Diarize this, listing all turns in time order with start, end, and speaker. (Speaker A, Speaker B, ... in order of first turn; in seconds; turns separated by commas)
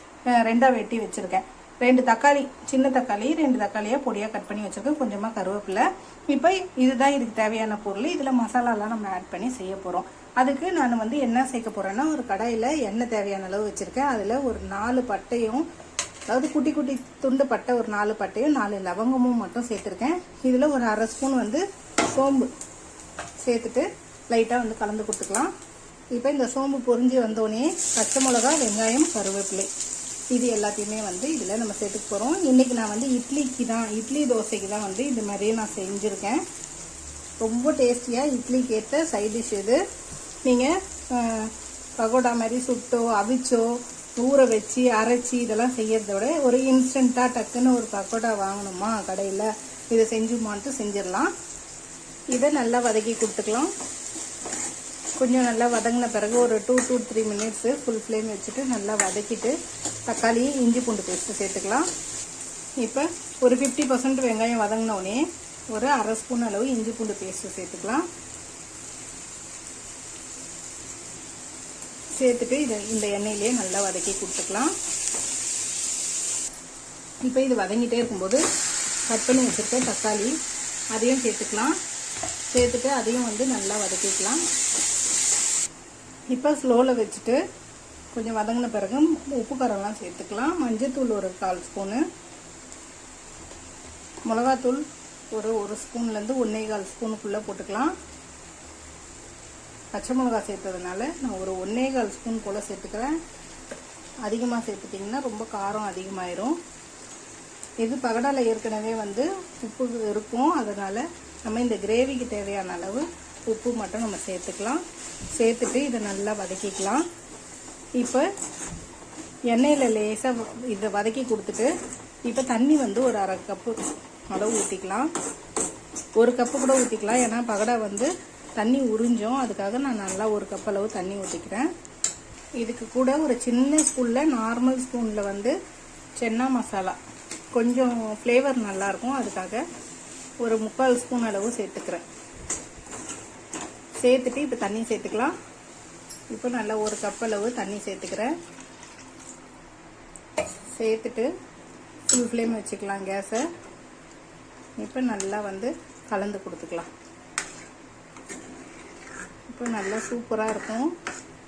Speaker A: 0.3-15.7, Speaker A: 16.3-22.5, Speaker A: 23.4-25.5, Speaker A: 26.1-29.7, Speaker A: 30.3-36.4, Speaker A: 37.4-39.8, Speaker A: 40.5-51.3, Speaker A: 52.3-53.7, Speaker A: 55.2-61.9, Speaker A: 62.8-68.1, Speaker A: 72.2-74.7, Speaker A: 77.2-78.4, Speaker A: 79.1-80.4, Speaker A: 80.9-81.8, Speaker A: 82.5-84.4, Speaker A: 86.3-87.4, Speaker A: 88.1-92.0, Speaker A: 94.2-98.0, Speaker A: 99.9-103.2, Speaker A: 104.2-106.6, Speaker A: 107.8-114.8, Speaker A: 115.3-117.0, Speaker A: 118.0-118.3, Speaker A: 119.5-121.7, Speaker A: 122.2-123.8, Speaker A: 124.3-125.1, Speaker A: 126.2-131.7, Speaker A: 132.6-135.6, Speaker A: 136.2-137.0, Speaker A: 137.5-139.7, Speaker A: 140.4-142.0, Speaker A: 144.0-145.4, Speaker A: 146.3-148.3, Speaker A: 150.7-151.3, Speaker A: 152.1-153.5, Speaker A: 154.8-156.9, Speaker A: 159.5-160.9